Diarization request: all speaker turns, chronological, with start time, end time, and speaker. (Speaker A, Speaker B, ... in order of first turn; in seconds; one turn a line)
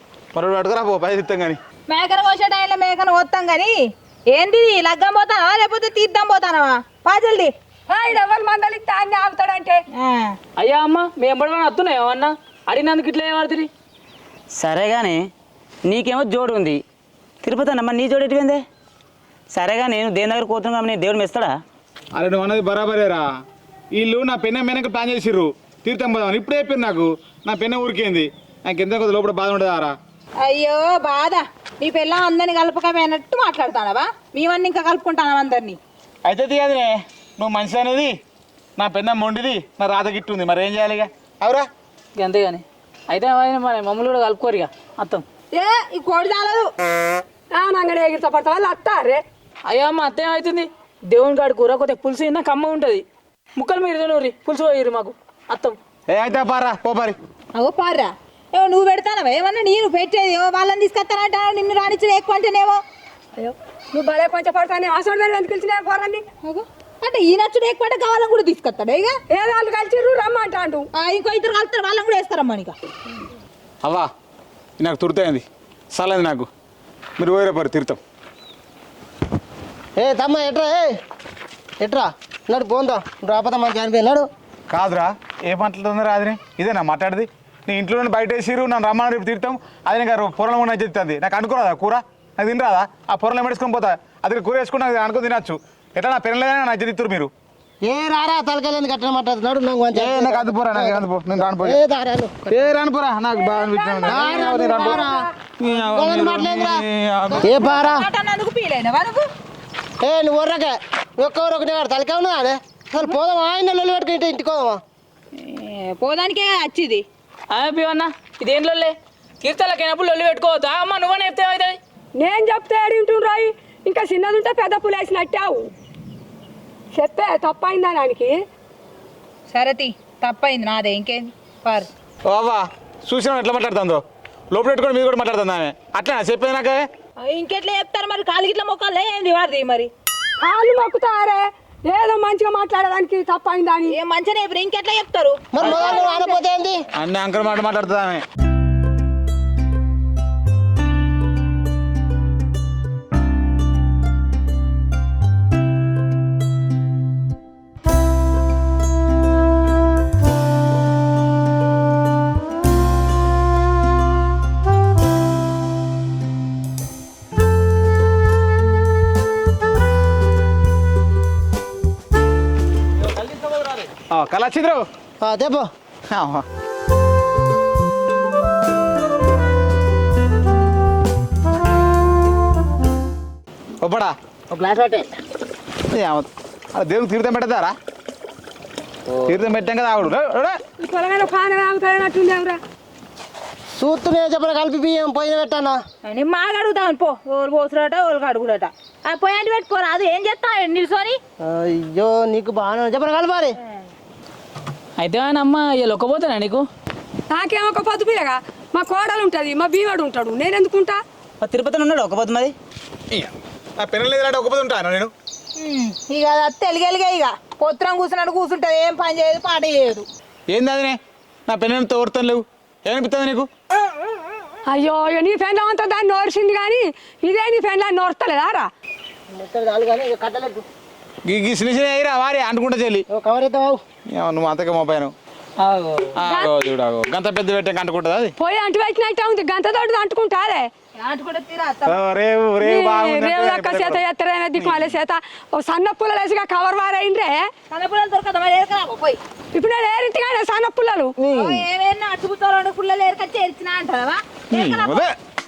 Speaker A: 0.3-1.6
Speaker B: 1.9-7.5
Speaker C: 7.9-9.8
Speaker B: 9.9-10.4
Speaker D: 10.6-13.7
Speaker E: 14.6-15.2
Speaker E: 15.9-16.8
Speaker E: 17.4-18.6
Speaker E: 19.5-21.5
Speaker A: 22.1-23.3
Speaker A: 23.9-29.9
Speaker B: 30.4-35.8
Speaker A: 36.2-38.2
Speaker A: 38.8-41.7
Speaker D: 42.2-45.2
Speaker B: 45.5-46.7
Speaker C: 47.5-49.2
Speaker D: 49.7-53.0
Speaker D: 53.6-55.8
Speaker A: 56.1-57.2
Speaker B: 57.5-62.8
Speaker C: 63.4-66.2
Speaker B: 66.4-69.2
Speaker C: 69.3-70.9
Speaker B: 70.9-72.8
Speaker A: 74.8-76.5
Speaker A: 77.2-78.0
Speaker F: 80.0-81.0
Speaker F: 81.8-84.3
Speaker A: 84.7-97.3
Speaker F: 97.8-102.5
Speaker A: 100.0-101.8
Speaker A: 102.5-105.0
Speaker C: 103.4-105.3
Speaker F: 104.1-105.2
Speaker A: 105.6-107.5
Speaker F: 105.7-108.1
Speaker B: 107.4-109.3
Speaker F: 110.0-114.8
Speaker B: 115.3-117.0
Speaker D: 117.5-121.8
Speaker C: 122.2-125.7
Speaker C: 126.9-128.3
Speaker B: 129.5-131.9
Speaker A: 132.2-136.8
Speaker B: 137.2-139.9
Speaker C: 140.4-143.9
Speaker B: 143.9-145.9
Speaker F: 145.5-146.8
Speaker C: 145.6-146.3
Speaker A: 147.0-148.2
Speaker E: 173.3-173.5
Speaker A: 174.1-174.8
Speaker F: 175.2-175.7
Speaker A: 176.1-176.4
Speaker A: 183.8-184.2
Speaker F: 184.5-185.1
Speaker A: 185.9-187.7
Speaker A: 189.3-190.6
Speaker C: 190.8-192.6
Speaker F: 193.8-195.8
Speaker B: 196.0-201.2
Speaker F: 201.4-203.6
Speaker D: 205.0-206.7
Speaker C: 207.3-211.0
Speaker E: 211.4-212.5
Speaker A: 213.1-215.1
Speaker B: 215.6-220.1
Speaker A: 220.5-223.5
Speaker C: 224.7-228.7
Speaker F: 229.3-230.7
Speaker A: 231.2-233.1
Speaker F: 233.1-233.8
Speaker A: 234.1-235.1
Speaker D: 235.7-236.1
Speaker A: 236.2-238.3
Speaker C: 236.2-236.5
Speaker C: 238.4-240.7
Speaker B: 241.0-242.0
Speaker A: 241.8-244.0
Speaker C: 242.6-247.5
Speaker A: 244.6-244.9
Speaker B: 247.7-249.2
Speaker C: 249.5-251.1
Speaker A: 251.2-251.6
Speaker B: 251.3-255.1
Speaker A: 254.5-255.2